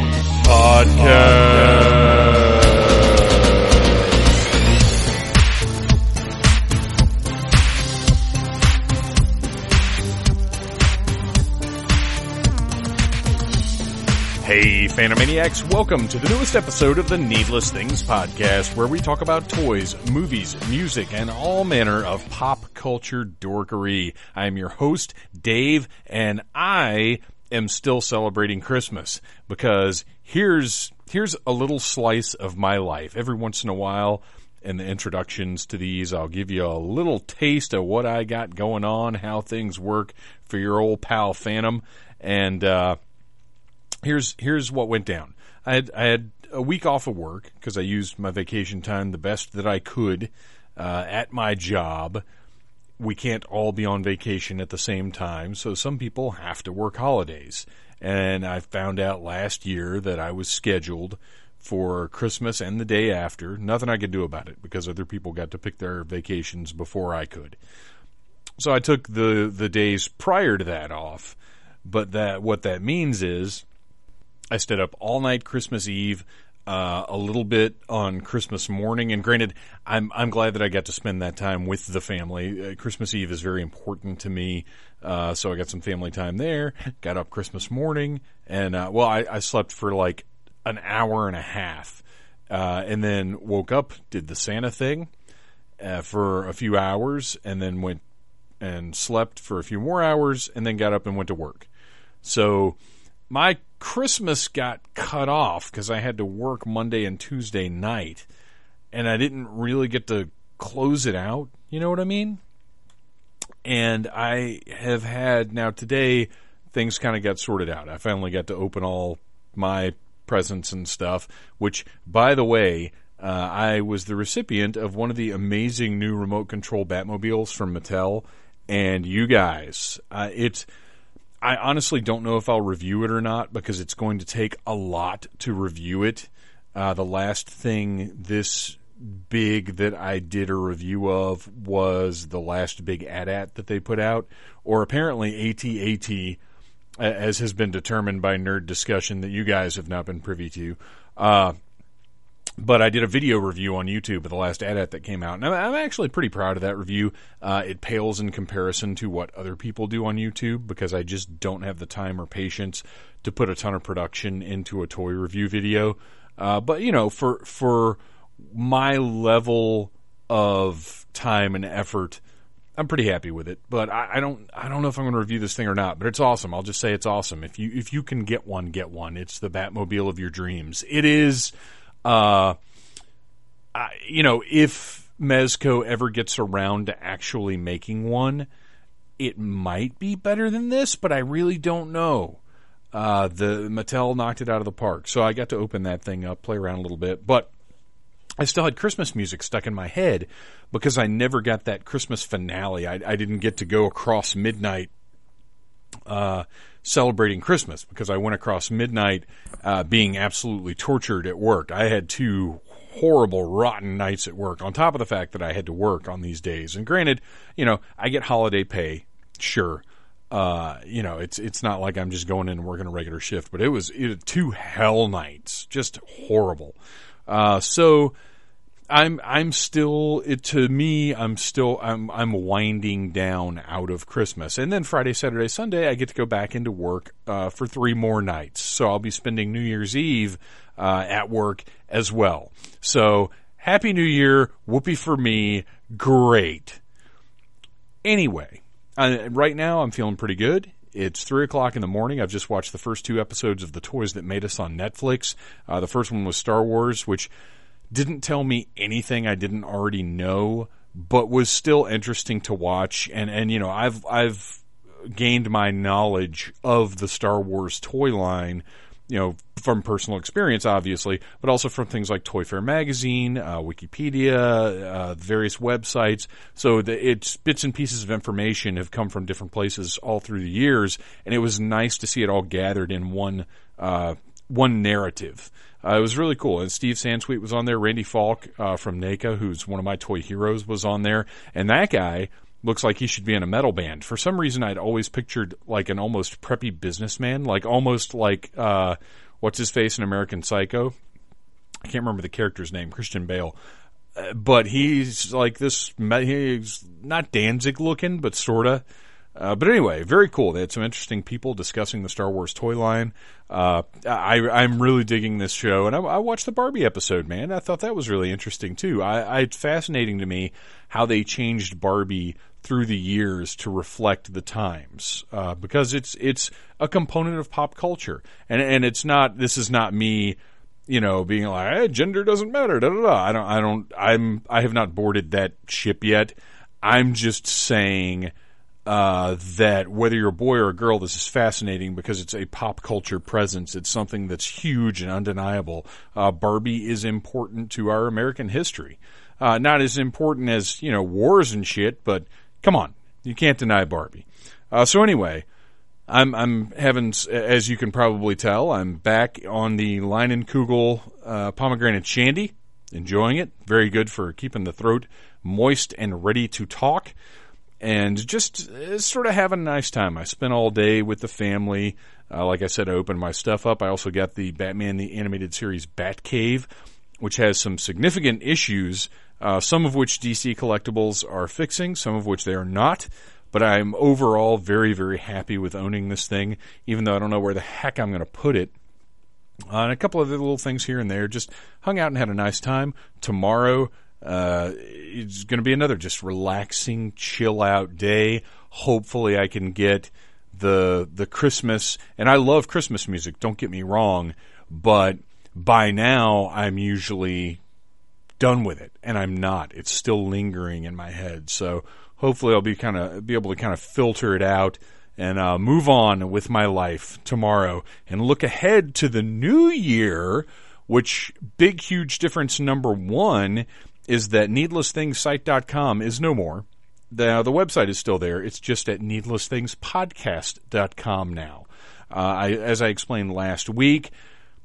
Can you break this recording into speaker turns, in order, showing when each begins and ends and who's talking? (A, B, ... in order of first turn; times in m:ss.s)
0:00.4-0:03.7 A
0:14.4-0:43.0 A
0:44.0-0:52.2 A
0:53.0-1:07.6 A
1:08.6-1:13.6 A
1:14.5-1:35.1 A
1:35.8-1:38.0 A
1:38.6-1:41.7 A
1:42.2-1:42.8 A
1:43.3-1:48.2 A
1:48.9-1:52.4 A
1:53.6-2:10.7 A
2:11.4-2:26.4 A
2:27.0-2:31.6 A
2:32.6-2:52.2 A
2:52.8-3:01.5 A
3:02.0-3:02.6 A
3:03.7-3:08.5 A
3:09.2-3:12.4 A
3:12.9-3:17.5 A
3:18.4-3:24.9 A
3:26.1-3:46.8 A
3:47.3-3:48.1 A
3:48.9-4:06.8 A
4:08.0-4:17.3 A
4:17.9-5:00.9 A
5:01.8-5:03.6 A
5:04.1-5:08.8 A
5:09.3-5:38.3 A
5:38.8-5:55.4 A
5:56.1-6:07.1 A
6:07.8-6:16.7 A
6:17.2-6:28.7 A
6:29.7-6:47.6 A
6:48.4-7:14.1 A